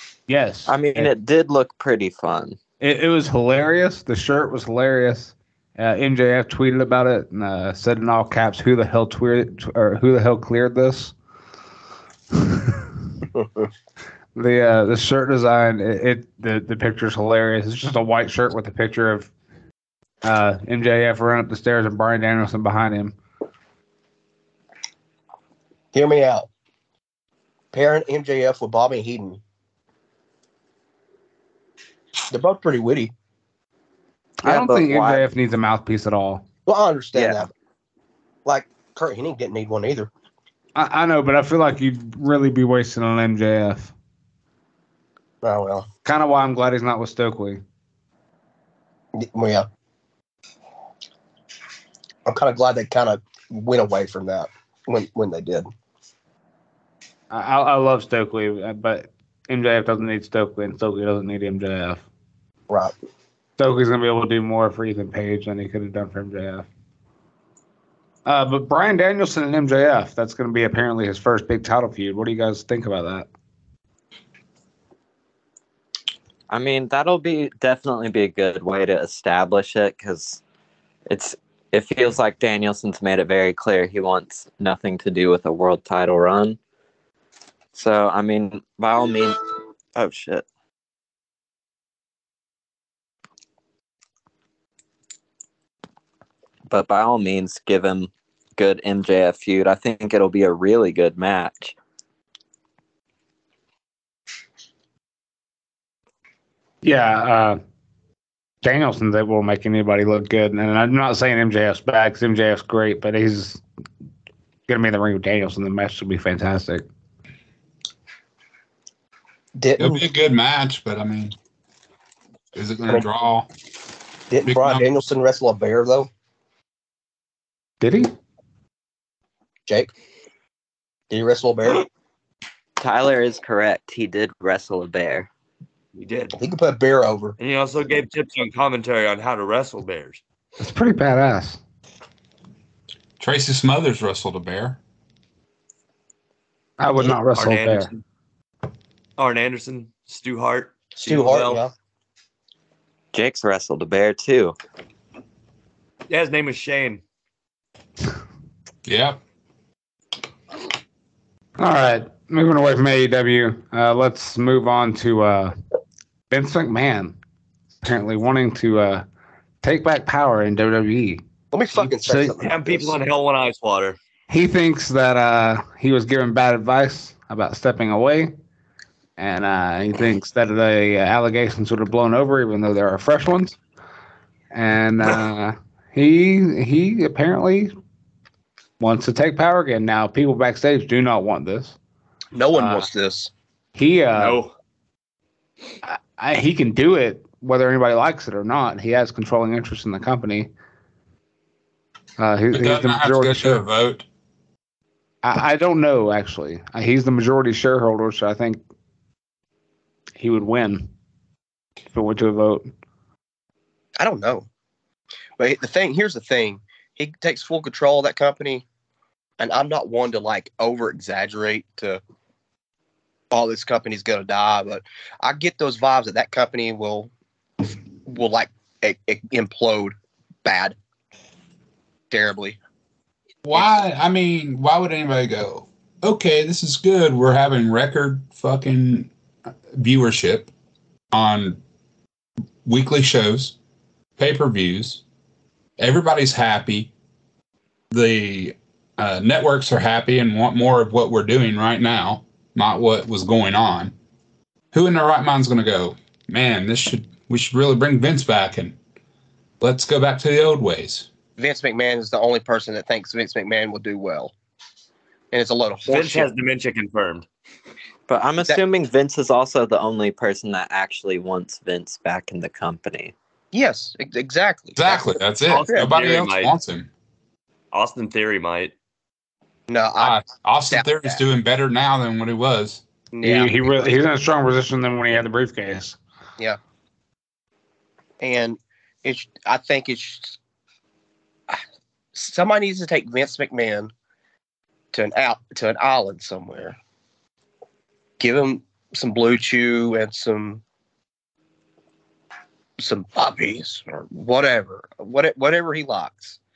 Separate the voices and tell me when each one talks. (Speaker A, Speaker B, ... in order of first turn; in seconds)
Speaker A: 0.3-1.1, 2.8-11.1, 12.3-12.9, 14.3-19.3, 20.2-23.1, 34.4-36.4, 40.7-43.9, 46.0-47.6, 57.3-62.0, 63.6-66.7, 68.2-73.3, 106.8-107.6, 108.6-113.6, 114.7-116.8, 127.8-128.1, 140.6-141.6, 146.8-147.9, 161.6-165.5, 166.3-167.2, 167.8-169.0, 169.6-171.2, 171.7-172.4, 174.3-178.3, 179.2-183.6, 184.5-187.7, 188.8-191.8, 192.5-192.9, 193.7-194.4, 195.8-200.5, 202.2-203.6, 205.2-208.6, 210.2-210.9, 211.9-212.7, 283.2-286.0
Speaker B: 0.7-2.6, 34.4-35.2, 37.1-37.5, 76.5-80.4, 81.1-86.6, 87.7-89.4, 89.9-90.5, 96.7-101.8, 132.8-135.3, 153.1-154.5, 268.1-273.1
Speaker C: 13.3-13.7, 25.9-26.5, 27.7-29.4, 32.3-33.1, 36.6-37.5, 38.4-40.1, 45.4-45.9, 49.1-49.6, 52.2-55.7, 119.5-120.0, 124.3-126.1, 131.1-131.9, 136.4-137.4, 151.0-151.7, 171.5-172.9, 192.3-193.3, 214.0-214.5, 215.4-218.6, 219.4-222.0, 223.3-227.1, 228.1-230.8, 232.1-232.6, 261.4-264.3, 265.3-266.3, 273.5-275.1, 275.6-275.9, 279.7-281.2, 283.1-283.9, 288.2-290.4, 292.1-293.9, 294.9-296.8, 298.2-300.6, 302.8-306.4
Speaker D: 119.8-121.3, 122.5-123.5, 124.5-124.8, 143.2-144.8, 158.8-159.2, 202.5-204.0, 233.4-239.1, 239.7-240.5, 241.1-241.6, 242.6-243.5, 244.2-245.0, 245.8-246.9, 247.9-253.9, 254.7-258.8, 259.6-261.1, 274.8-276.9, 280.0-282.8
Speaker E: 135.9-136.3, 137.4-140.2, 147.3-148.0, 149.2-151.6, 156.1-157.0, 172.4-174.0, 194.2-194.5, 265.9-267.3, 275.5-276.5, 277.7-278.7